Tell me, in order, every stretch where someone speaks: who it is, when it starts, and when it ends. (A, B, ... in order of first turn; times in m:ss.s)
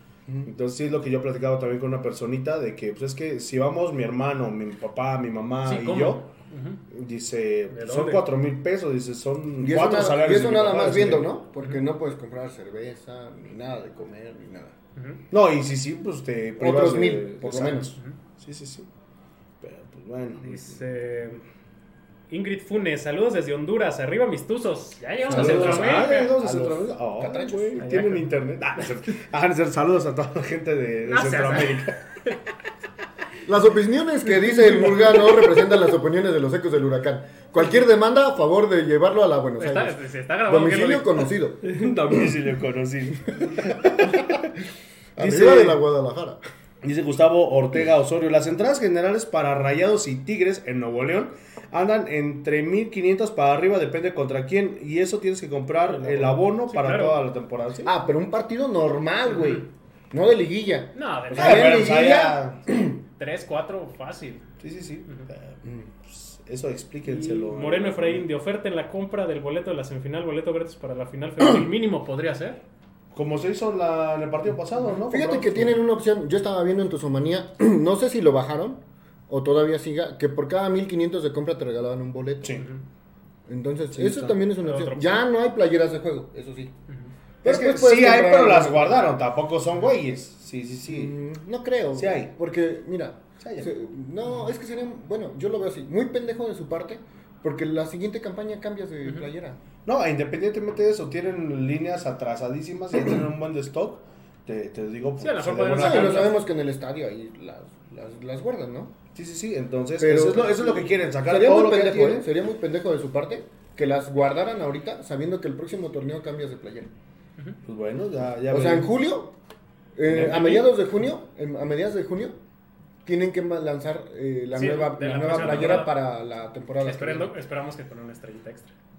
0:00.4-0:06.3 A
0:05.6-0:06.8 B
0:06.9-0:11.3 A
0:07.7-0:08.2 B
0:09.6-0:14.7 C
0:15.0-0:15.2 B
0:15.3-0:18.9 A
0:16.6-0:17.9 C
0:17.9-0:18.1 B
0:19.6-0:20.8 A
0:20.4-0:21.4 B
0:22.3-0:26.3 B
0:25.3-0:27.9 C
0:25.3-0:32.0 A
0:27.8-0:28.3 B
0:31.0-0:32.3 B
0:33.4-0:41.6 C
0:39.6-0:41.3 B
0:41.6-0:44.4 A
0:43.6-0:44.4 C
0:45.2-0:46.4 C
0:45.2-0:45.8 A
0:46.8-0:57.9 A
0:55.9-0:57.2 B
0:57.8-1:03.0 C
0:59.3-0:59.6 B
1:00.9-1:02.0 B
1:01.3-1:02.6 A
1:03.2-1:04.4 B
1:04.6-1:08.3 A
1:07.0-1:12.6 B
1:13.1-1:15.8 A
1:15.1-1:22.6 C
1:23.5-1:26.7 C
1:24.0-1:24.4 A
1:24.6-1:25.2 B
1:27.4-1:29.0 C
1:27.4-1:31.1 A
1:30.8-1:39.6 C
1:31.9-1:32.3 A
1:33.4-1:33.7 A
1:39.8-1:46.3 A
1:45.2-1:46.4 B
1:45.7-1:48.9 C
1:49.1-1:52.2 A
1:50.0-1:56.9 C
1:57.6-1:58.9 A
1:58.5-1:59.3 C
2:00.0-2:02.4 C
2:00.0-2:00.8 A
2:03.0-2:07.3 C
2:04.5-2:06.0 B
2:05.2-2:05.8 A
2:06.8-2:08.7 B